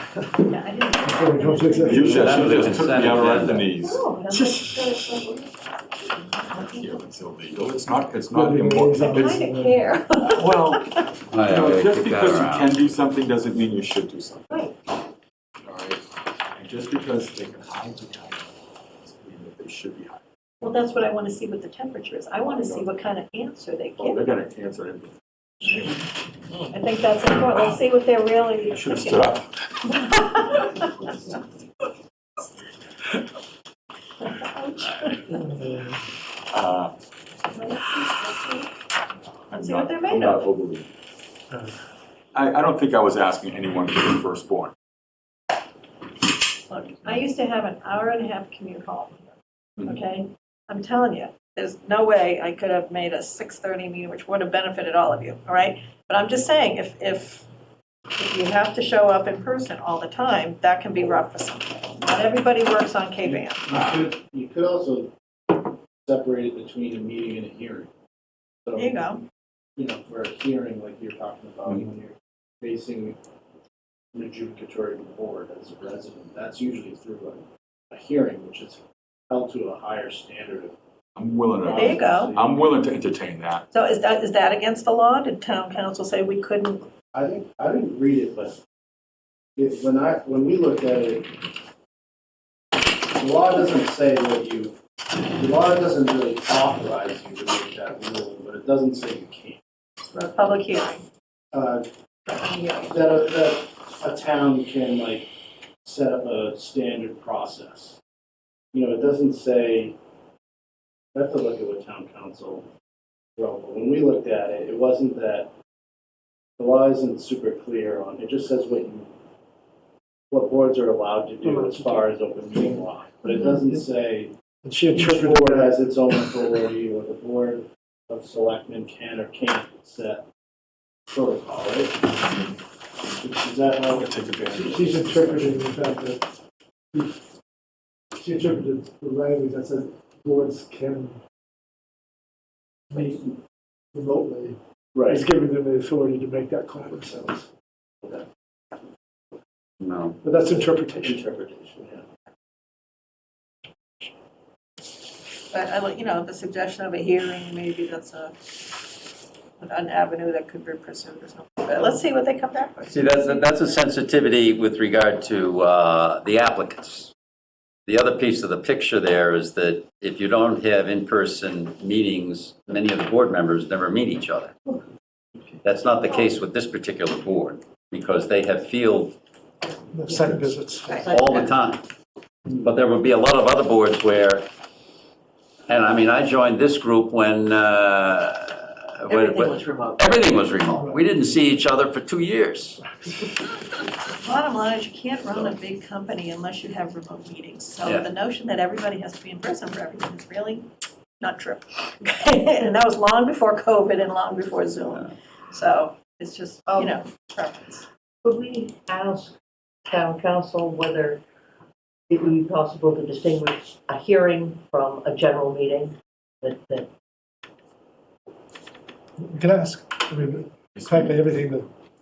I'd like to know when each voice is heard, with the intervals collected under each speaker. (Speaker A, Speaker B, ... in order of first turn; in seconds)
Speaker A: 0.5-2.7, 3.8-5.5, 6.2-6.9, 9.1-11.0, 20.6-24.2, 25.6-26.0, 26.7-29.4, 29.9-30.9, 34.3-35.6, 37.5-38.7, 39.6-40.5, 46.7-57.5, 58.1-63.6, 68.8-69.2, 81.7-82.3, 83.7-86.9, 100.1-101.0, 102.3-102.9, 155.5-158.4, 159.6-162.8, 194.2-200.7, 201.2-207.9
Speaker B: 1.1-2.6, 8.3-9.8, 121.4-122.8, 124.7-125.9, 134.5-136.3, 136.9-137.2, 138.2-141.2, 142.9-143.4, 143.9-147.5, 150.2-151.2, 179.9-181.0, 219.2-221.7
Speaker C: 1.9-4.1, 6.6-9.3, 10.3-10.8, 11.4-14.7, 15.6-20.2, 22.5-22.9, 24.0-25.1, 25.6-25.9, 28.7-29.7, 36.5-36.9, 39.5-40.9, 42.3-44.7, 63.7-64.1, 81.2-83.7, 133.9-135.6, 220.7-221.2
Speaker D: 2.1-3.7, 11.3-12.7, 149.8-150.2, 162.8-167.1, 167.9-174.6, 175.6-179.2, 181.1-181.8, 182.5-184.5, 185.7-192.8, 197.8-198.1
Speaker E: 63.2-67.9, 68.7-69.0, 69.8-73.2, 74.1-80.8, 81.6-82.7, 87.1-88.6, 89.6-91.3, 93.2-94.8, 95.4-99.6, 101.5-101.9, 102.8-105.3, 105.8-108.0, 108.7-110.0, 111.1-112.7, 113.4-115.5, 116.6-119.1, 120.3-124.3, 124.9-130.2, 131.1-132.5, 133.2-134.2, 144.9-145.2, 150.4-152.1
Speaker F: 180.9-181.5, 189.1-190.4, 208.2-209.3, 209.9-211.2, 212.1-216.9